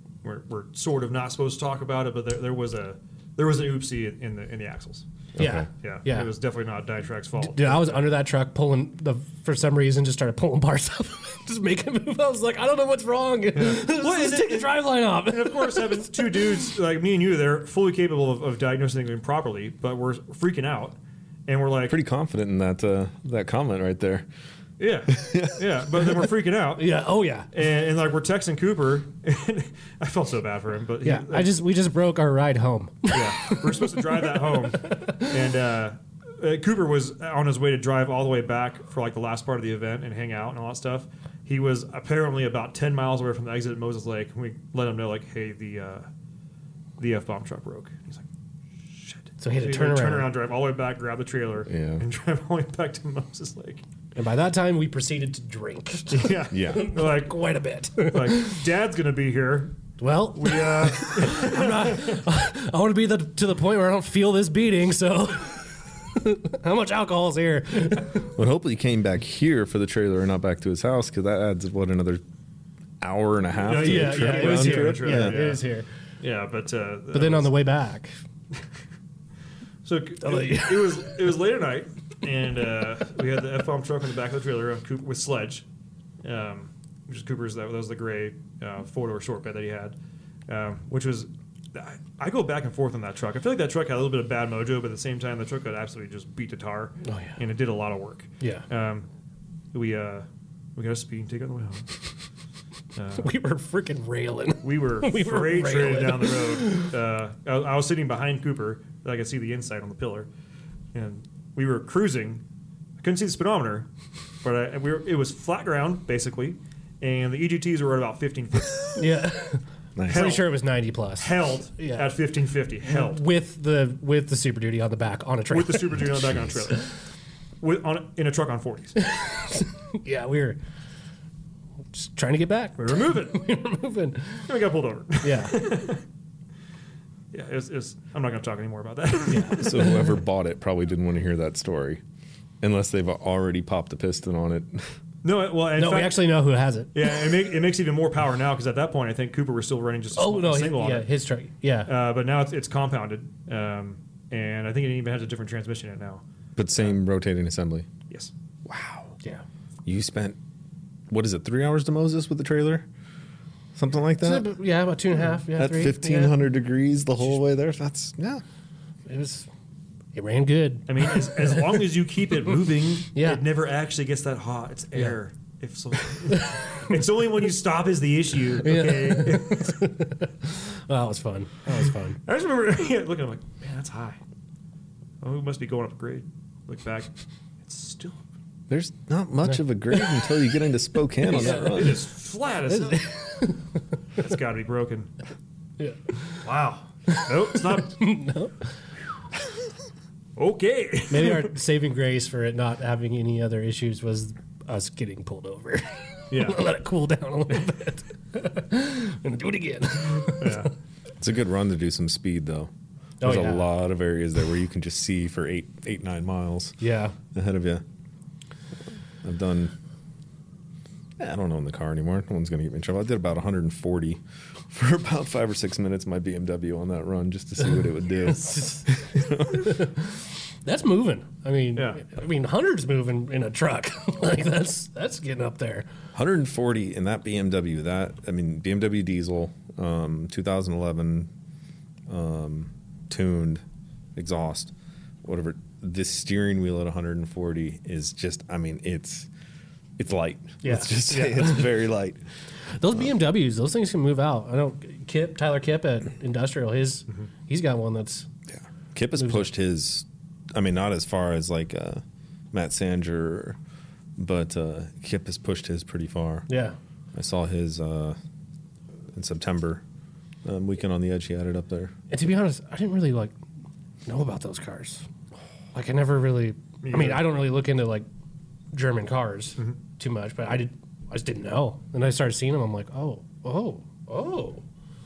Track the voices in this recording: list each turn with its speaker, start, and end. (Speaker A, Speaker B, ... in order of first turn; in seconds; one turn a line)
Speaker A: 0.2-5.0
Speaker B: 5.4-5.7
Speaker C: 5.4-6.3
Speaker A: 5.8-8.2
Speaker C: 7.4-16.7
Speaker A: 13.5-22.0
Speaker B: 21.9-24.3
Speaker A: 24.8-27.0
Speaker B: 25.1-26.3
Speaker C: 26.8-27.5
Speaker A: 27.5-31.6
Speaker C: 31.0-35.3
Speaker A: 33.1-46.1
Speaker A: 47.0-48.3
Speaker A: 48.8-53.8
Speaker C: 49.4-50.3
Speaker B: 51.7-52.0
Speaker C: 54.1-58.6
Speaker A: 56.1-57.4
Speaker B: 56.5-56.9
Speaker A: 58.0-59.7
Speaker C: 60.0-68.3
Speaker A: 60.4-62.2
Speaker B: 68.3-72.2
Speaker B: 73.0-75.4
Speaker A: 73.6-75.6
Speaker C: 73.7-75.9
Speaker A: 76.2-77.5
Speaker C: 77.1-78.1
Speaker A: 79.8-85.6
Speaker C: 80.2-81.2
Speaker A: 86.2-90.0
Speaker A: 90.5-99.1
Speaker C: 97.0-97.4
Speaker A: 99.7-102.0
Speaker A: 103.0-103.3
Speaker C: 103.2-106.9
Speaker A: 104.6-110.3
Speaker A: 110.9-112.4
Speaker A: 113.0-113.9
Speaker A: 114.4-119.0
Speaker C: 119.0-122.2
Speaker B: 120.0-120.4
Speaker A: 120.1-120.5
Speaker A: 121.2-123.2
Speaker C: 122.8-126.3
Speaker A: 125.5-126.9
Speaker A: 127.6-128.9
Speaker C: 129.0-130.6
Speaker C: 131.9-134.4
Speaker A: 132.8-133.4
Speaker A: 134.4-136.0
Speaker C: 135.2-135.7
Speaker A: 137.3-140.0
Speaker C: 139.3-140.1
Speaker B: 139.5-142.0
Speaker B: 142.6-144.9
Speaker A: 145.2-146.3
Speaker C: 145.8-147.1
Speaker A: 146.9-151.1
Speaker C: 150.1-151.9
Speaker A: 151.9-156.2
Speaker B: 156.6-157.9
Speaker B: 158.7-159.2
Speaker B: 159.9-160.4
Speaker B: 161.1-162.9
Speaker B: 163.8-164.5
Speaker C: 164.2-166.4
Speaker B: 165.5-168.4
Speaker C: 169.1-169.5
Speaker C: 170.1-171.8
Speaker A: 170.9-179.8
Speaker C: 173.1-173.4
Speaker C: 176.3-176.9
Speaker C: 178.6-182.2
Speaker A: 181.7-184.2
Speaker A: 185.2-187.1
Speaker A: 187.6-188.2
Speaker B: 188.7-192.0
Speaker C: 189.4-190.3
Speaker C: 191.2-192.0
Speaker A: 191.3-193.1
Speaker C: 192.7-193.8
Speaker A: 194.2-195.1
Speaker C: 195.8-196.3
Speaker A: 196.4-198.0
Speaker C: 197.1-198.7
Speaker A: 200.4-201.5
Speaker C: 201.1-210.7
Speaker A: 206.3-206.6
Speaker A: 210.4-210.7
Speaker B: 211.2-212.7
Speaker C: 213.2-213.7
Speaker B: 213.2-216.8
Speaker C: 216.8-217.2
Speaker B: 217.3-217.8
Speaker B: 219.2-219.7
Speaker B: 221.2-229.8
Speaker C: 228.3-235.9
Speaker A: 231.7-232.0
Speaker B: 236.1-241.3
Speaker B: 242.1-243.6
Speaker B: 244.2-244.7
Speaker B: 245.2-249.3
Speaker B: 250.0-252.2
Speaker C: 250.6-251.7
Speaker A: 251.1-251.5
Speaker C: 252.8-258.3
Speaker B: 258.5-263.6
Speaker C: 259.2-259.5
Speaker B: 264.2-266.5
Speaker C: 266.5-266.8
Speaker B: 267.1-268.2
Speaker B: 269.1-269.8
Speaker B: 270.4-271.9
Speaker C: 272.1-273.4
Speaker C: 274.1-275.1
Speaker C: 275.7-278.1
Speaker A: 276.8-277.4
Speaker C: 278.7-284.6